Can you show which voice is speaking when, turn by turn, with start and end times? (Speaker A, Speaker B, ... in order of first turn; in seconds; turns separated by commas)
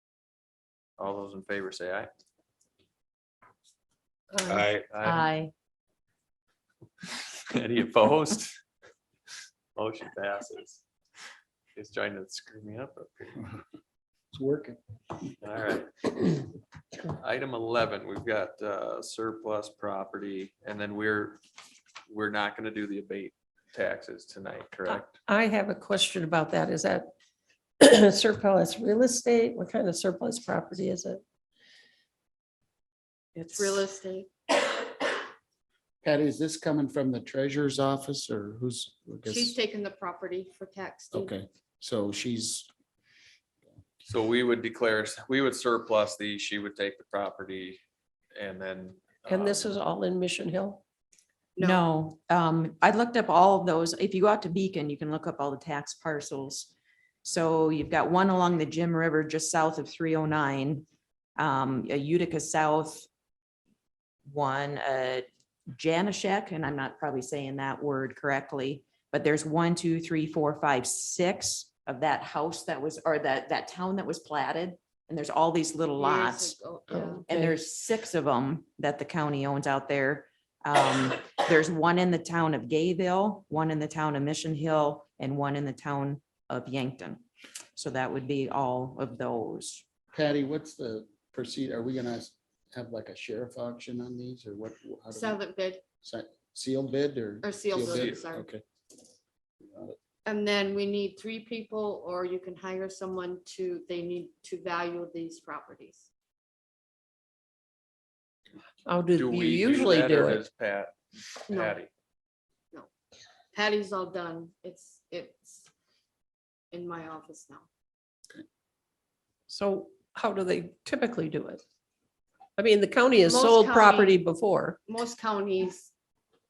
Speaker A: 1.0-2.1, Speaker B: 4.3-4.6, Speaker A: 4.8-5.3, Speaker C: 5.0-5.5, Speaker A: 7.5-8.6, Speaker A: 9.8-10.8, Speaker A: 11.8-13.5, Speaker D: 14.3-14.8, Speaker A: 15.4-16.1, Speaker A: 17.1-21.4, Speaker A: 22.1-25.2, Speaker B: 24.9-27.1, Speaker B: 27.8-31.2, Speaker E: 33.4-34.3, Speaker B: 33.5-33.9, Speaker D: 36.0-39.6, Speaker E: 39.3-41.3, Speaker D: 41.1-42.7, Speaker A: 44.0-47.8, Speaker A: 48.4-49.8, Speaker B: 49.3-50.8, Speaker E: 51.6-51.9, Speaker C: 51.6-56.7, Speaker C: 57.2-60.8, Speaker C: 61.4-63.0, Speaker C: 64.3-76.5, Speaker E: 76.0-77.3, Speaker B: 76.9-77.6, Speaker C: 77.3-87.2, Speaker C: 87.8-89.8, Speaker D: 90.1-95.4, Speaker E: 95.1-95.8, Speaker D: 96.0-98.6, Speaker E: 97.4-98.5, Speaker A: 97.8-98.2, Speaker D: 99.7-100.0, Speaker E: 100.2-106.1, Speaker B: 108.8-110.5, Speaker A: 109.2-111.9, Speaker E: 111.5-111.8, Speaker E: 113.5-115.7, Speaker E: 116.7-117.7, Speaker B: 119.5-121.6, Speaker B: 122.6-124.8, Speaker E: 123.2-124.2, Speaker E: 124.9-125.9